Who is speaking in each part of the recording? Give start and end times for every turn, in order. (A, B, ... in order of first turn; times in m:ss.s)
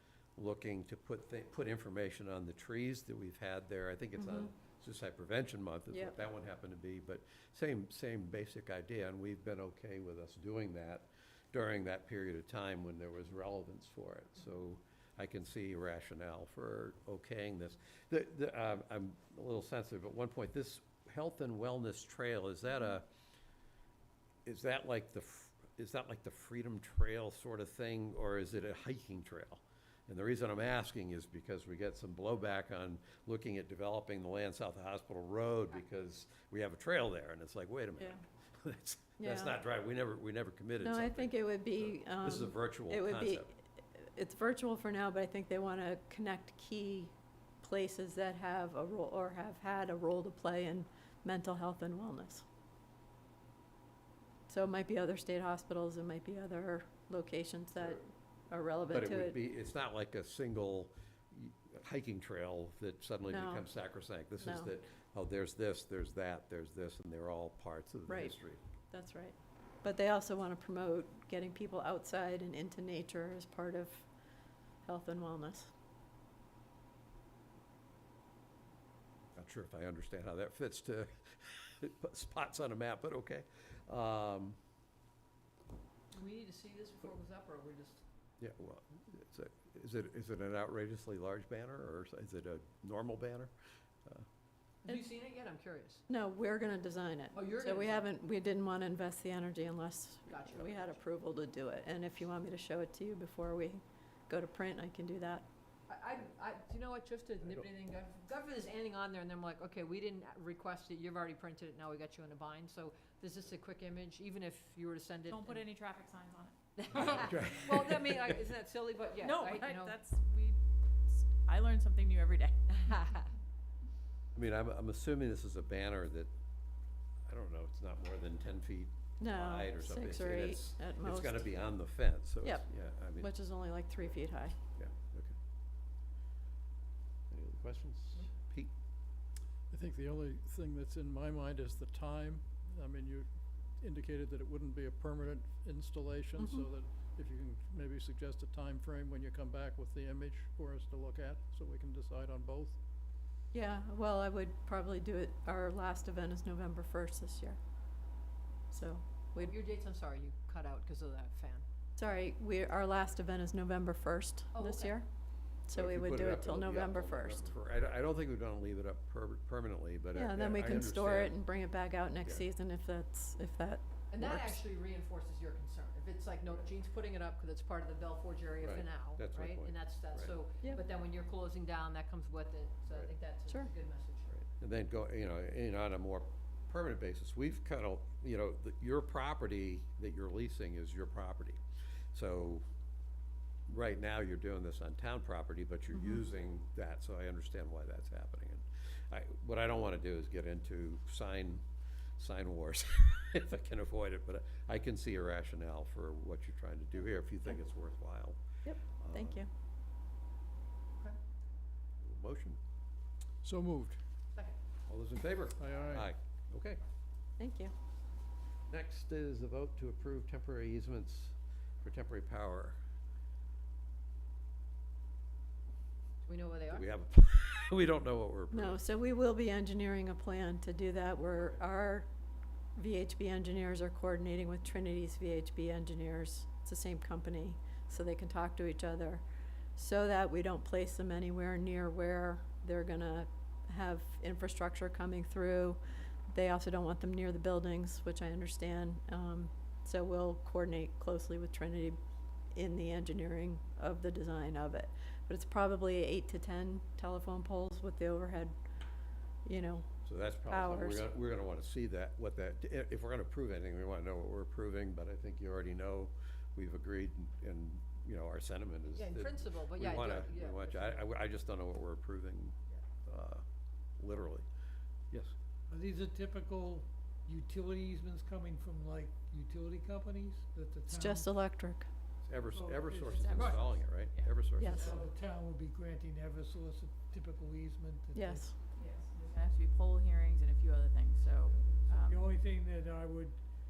0:00.4-0:23.0 A
0:04.2-0:04.5 B
0:24.5-0:43.5 A
0:39.2-0:39.6 B
0:40.8-0:52.4 B
0:54.5-0:59.4 B
0:58.9-1:08.6 A
1:03.3-1:03.7 B
1:04.4-1:04.7 B
1:08.1-1:08.4 B
1:08.9-1:14.1 B
1:14.9-1:15.7 B
1:19.4-1:24.6 A
1:26.1-1:28.0 C
1:28.4-1:33.5 A
1:34.8-1:36.0 C
1:36.1-1:45.5 B
1:37.3-1:38.0 C
1:40.3-1:41.0 C
1:45.9-1:55.6 C
1:55.3-1:56.6 D
1:56.8-2:00.0 C
1:56.9-1:58.4 A
1:59.2-2:03.2 D
2:02.8-2:03.3 C
2:04.3-2:06.3 A
2:07.3-2:13.3 A
2:09.2-2:11.5 B
2:13.2-2:14.6 B
2:14.8-2:15.4 A
2:17.3-2:18.7 A
2:19.7-2:32.8 E
2:26.4-2:26.7 B
2:33.5-2:37.6 B
2:38.7-2:39.6 B
2:39.4-2:41.6 C
2:42.0-2:45.1 B
2:44.5-2:45.0 C
2:45.7-2:47.6 B
2:45.7-2:51.4 A
2:50.2-2:53.8 B
2:54.1-3:04.3 C
2:54.2-2:54.6 A
2:58.6-3:00.3 A
3:04.3-3:11.6 A
3:12.1-3:12.6 A
3:13.7-3:21.6 A
3:15.9-3:16.2 B
3:22.2-3:29.4 A
3:28.6-3:29.5 B
3:32.0-3:32.6 A
3:33.4-3:34.0 E
3:34.9-3:36.8 A
3:35.6-3:36.1 E
3:37.4-3:37.7 B
3:38.7-3:42.8 A
3:46.2-3:46.9 C
3:46.7-3:48.8 A
3:48.5-3:52.1 B
3:52.8-3:59.2 B
3:59.8-4:12.0 B
4:12.6-4:18.6 B
4:19.4-4:19.9 B
4:20.1-4:33.4 A
4:20.5-4:21.1 B
4:28.9-4:31.1 C
4:34.0-4:34.5 A
4:35.7-4:41.4 F
4:40.9-4:41.9 B
4:42.2-4:45.0 A
4:42.5-4:43.8 F
4:43.1-4:45.1 D
4:44.6-4:45.0 B
4:44.8-4:48.6 F
4:48.1-4:48.6 B
4:48.8-4:52.4 D
4:51.5-4:53.4 F